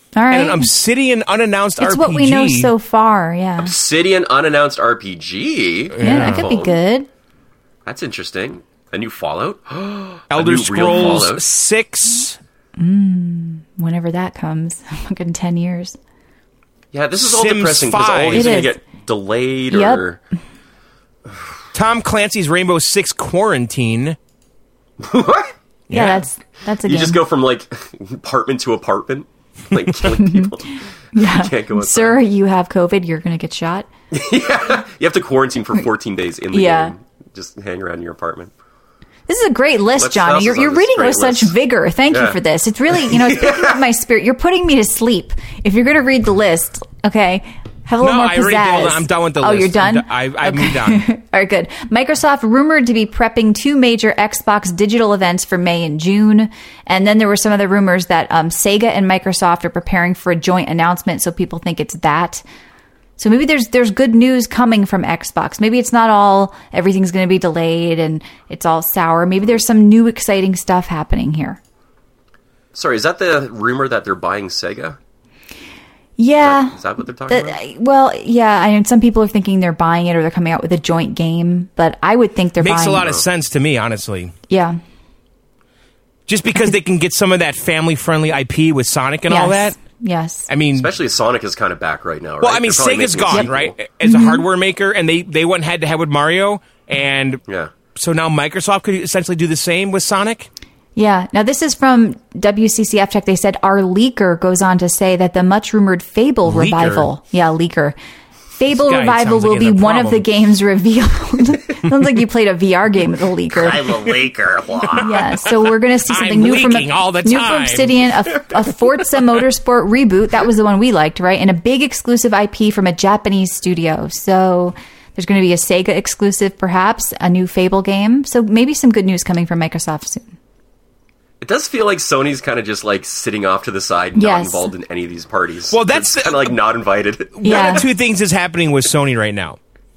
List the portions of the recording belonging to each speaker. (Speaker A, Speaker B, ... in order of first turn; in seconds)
Speaker A: 0.1-0.7, 1.8-3.7, 6.0-7.1, 12.8-16.0, 18.3-18.8, 19.7-20.0, 25.9-27.2, 30.2-33.9, 36.5-36.9, 39.3-62.4, 63.2-71.6, 76.2-83.1, 84.5-84.8, 89.3-90.5, 93.3-94.4, 101.0-108.0, 108.5-114.0, 115.0-130.3, 134.2-134.7, 137.4-137.8
Speaker B: 0.3-2.7, 5.9-6.5, 10.3-12.4, 17.2-18.7, 21.7-24.2, 25.9-26.2, 48.0-51.0, 82.6-84.3, 86.3-89.7, 90.5-90.9, 92.4-97.4, 97.9-100.5, 106.4-107.1, 108.7-110.2, 116.0-118.1, 135.7-136.6, 137.4-139.6
Speaker C: 3.6-6.8, 7.9-11.4, 16.9-20.2, 25.0-25.5, 26.8-32.2, 34.1-38.5, 40.0-41.5, 42.1-42.4, 42.9-43.8, 72.7-75.0, 76.4-77.6, 90.7-93.8, 113.5-115.2, 131.4-137.8